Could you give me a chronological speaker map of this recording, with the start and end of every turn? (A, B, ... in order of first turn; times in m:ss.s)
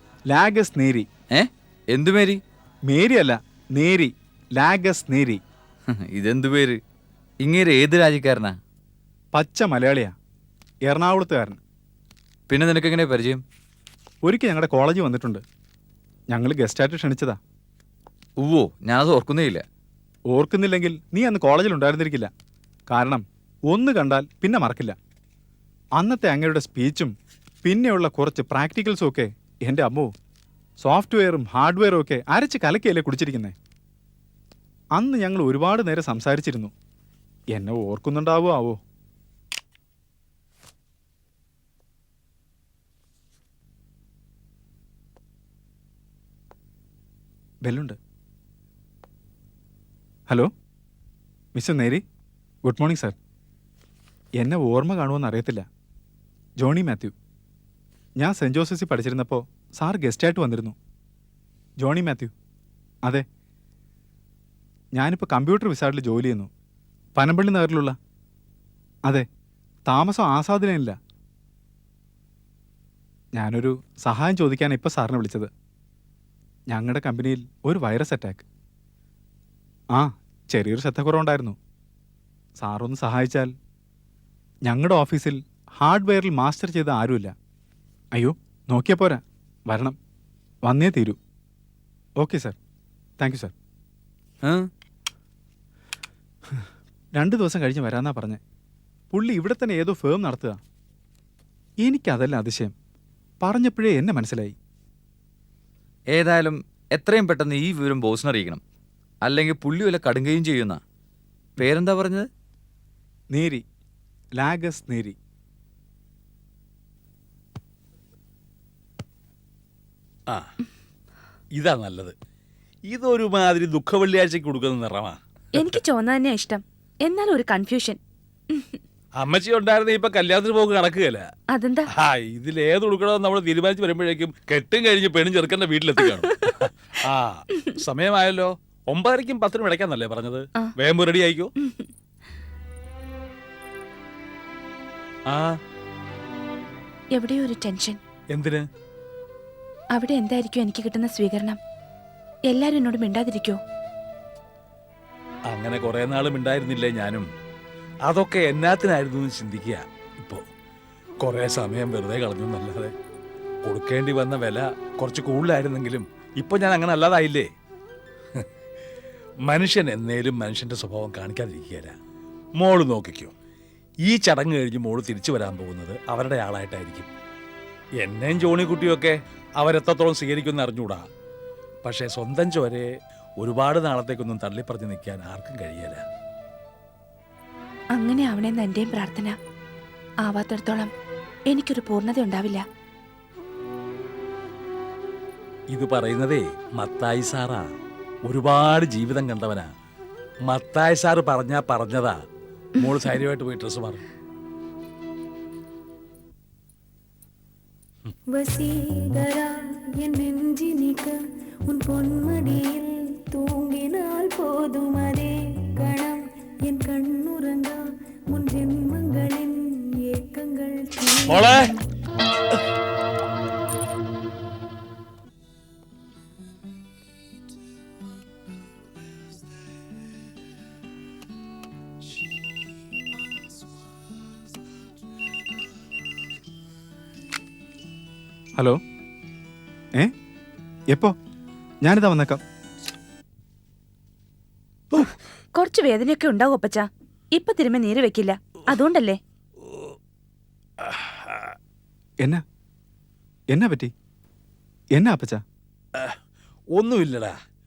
0:00.3-0:01.1 A
0:01.3-0:02.4 B
0:02.9-0:05.4 A
0:06.0-0:06.8 B
0:07.4-0:08.6 B
0:09.3-0:10.1 A
0:10.9-0:11.6 A
0:12.5-0:13.4 B
0:14.2-0:15.4 A
0:16.3-0:17.4 A
0:18.4-0:19.6 B
0:20.3-0:22.3 A
0:22.9-0:25.0 A
0:26.0-0:30.1 A
0:30.8-0:33.5 A
0:35.0-0:36.7 A
0:37.5-0:38.8 A
0:47.6-0:48.0 A
0:51.5-0:52.0 A
0:52.6-0:53.1 A
0:54.4-0:55.6 A
0:56.6-0:57.1 A
0:58.2-1:00.8 A
1:01.8-1:02.3 A
1:05.0-1:06.5 A
1:07.2-1:08.0 A
1:09.9-1:11.0 A
1:13.3-1:15.5 A
1:16.7-1:18.4 A
1:19.9-1:21.6 A
1:22.6-1:23.5 A
1:24.6-1:27.3 A
1:28.1-1:30.0 A
1:30.6-1:31.2 A
1:32.2-1:32.6 A
1:33.2-1:33.5 A
1:34.4-1:34.7 B
1:37.2-1:38.4 A
1:39.1-1:40.6 A
1:41.8-1:42.7 A
1:43.4-1:44.5 A
1:46.1-1:48.6 B
1:49.2-1:50.8 B
1:51.6-1:52.3 B
1:53.3-1:53.6 A
1:54.4-1:55.2 A
2:01.6-2:02.1 C
2:02.9-2:05.2 C
2:05.5-2:08.0 D
2:08.5-2:08.8 D
2:09.2-2:11.2 C
2:11.5-2:11.8 D
2:12.0-2:21.5 C
2:21.6-2:21.9 D
2:25.3-2:25.6 C
2:27.1-2:28.0 D
2:28.3-2:28.6 C
2:29.9-2:31.6 D
2:32.5-2:33.6 D
2:35.5-2:37.3 C
2:38.1-2:40.4 C
2:41.2-2:42.9 C
2:43.6-2:47.5 C
2:49.5-2:51.9 C
2:52.6-2:53.3 C
2:54.1-2:57.1 C
2:58.0-3:01.0 C
3:01.8-3:06.0 C
3:08.0-3:09.4 D
3:10.2-3:10.9 D
3:11.5-3:12.6 D
3:15.7-3:17.7 C
3:18.2-3:19.7 C
3:20.5-3:22.2 C
3:22.8-3:24.0 C
3:28.3-3:41.6 E
3:41.3-3:41.7 C
4:01.8-4:02.4 A
4:05.5-4:09.2 D
4:10.8-4:11.5 C
4:13.5-4:13.9 A
4:15.0-4:15.4 A
4:16.7-4:17.3 C